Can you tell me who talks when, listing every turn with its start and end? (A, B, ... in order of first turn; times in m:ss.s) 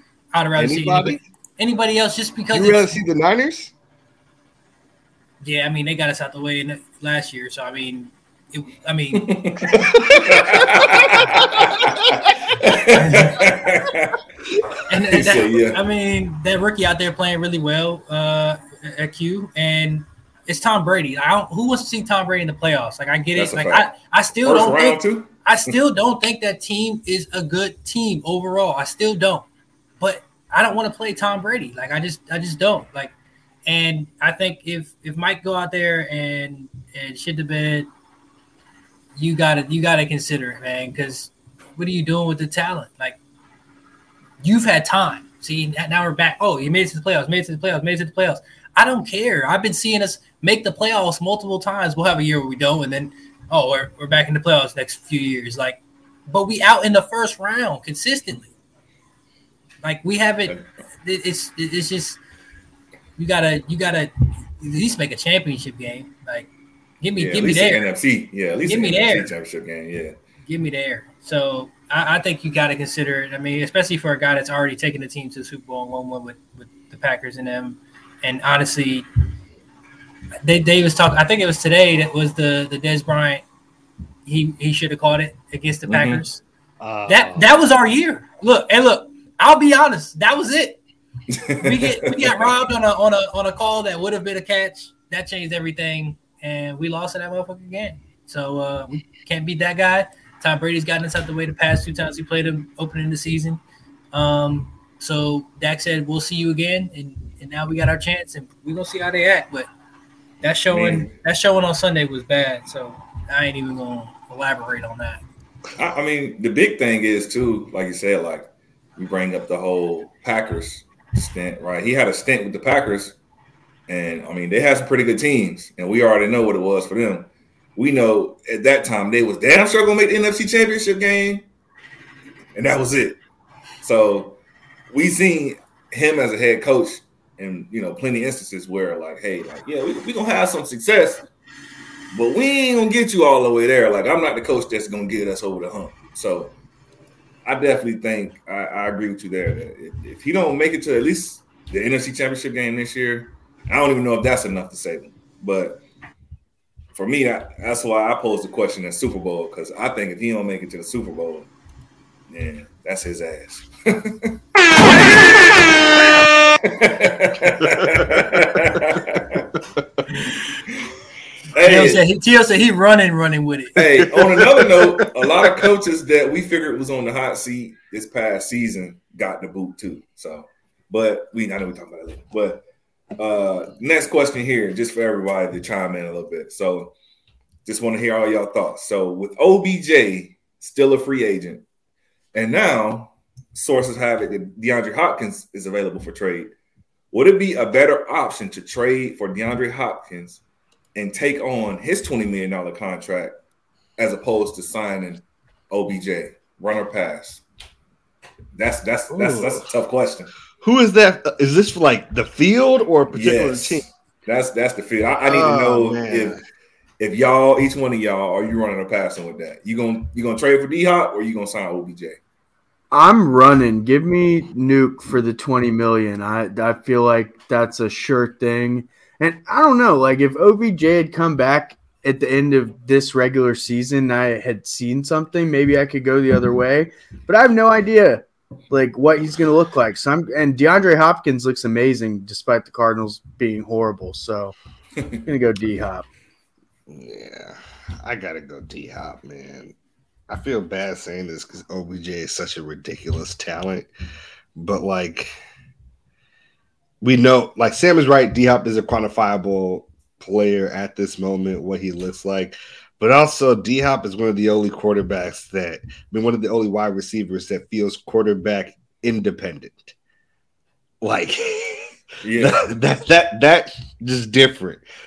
0:00.3-0:02.9 A
0:00.5-0:01.2 B
0:02.5-0:03.7 B
0:05.4-0:09.3 A
0:09.1-0:14.2 C
0:09.7-0:11.8 B
0:12.9-0:13.6 A
0:14.9-0:29.5 A
0:15.1-0:15.8 C
0:23.3-0:23.9 C
0:24.4-0:25.7 C
0:30.0-0:33.1 A
0:33.6-0:37.9 A
0:39.2-0:43.2 A
0:44.4-0:58.5 A
0:59.8-1:02.2 A
1:03.2-1:06.5 A
1:07.0-1:07.9 A
1:07.2-1:10.1 C
1:08.7-1:09.3 A
1:10.4-1:19.0 A
1:20.4-1:23.4 A
1:24.2-1:26.4 A
1:25.9-1:26.2 C
1:26.8-1:27.5 B
1:27.1-1:30.8 A
1:31.3-1:32.3 C
1:31.6-1:43.6 A
1:44.1-1:49.7 A
1:50.4-1:55.2 A
1:50.7-1:51.1 C
1:55.8-2:03.1 C
2:03.9-2:11.4 C
2:12.5-2:13.2 C
2:13.8-2:14.4 C
2:14.9-2:21.2 C
2:22.1-2:26.5 C
2:27.4-2:35.8 C
2:36.9-2:41.5 C
2:42.3-2:49.4 C
2:47.7-2:48.7 B
2:51.5-2:52.0 C
2:51.6-2:53.8 A
2:53.8-3:02.6 C
2:54.0-2:55.6 B
3:03.2-3:06.9 C
3:07.6-3:11.6 C
3:12.3-3:16.5 C
3:17.1-3:20.4 C
3:20.9-3:23.3 C
3:24.0-3:27.4 C
3:28.5-3:30.3 C
3:29.1-3:29.6 B
3:30.6-3:33.8 B
3:33.1-3:36.4 C
3:35.2-3:36.4 B
3:37.0-3:42.2 C
3:42.9-4:04.5 D
4:05.2-4:06.0 D
4:06.9-4:09.7 B
4:10.3-4:13.9 B
4:14.6-4:15.3 B
4:17.0-4:29.9 B
4:31.0-4:34.8 B
4:32.2-4:32.7 C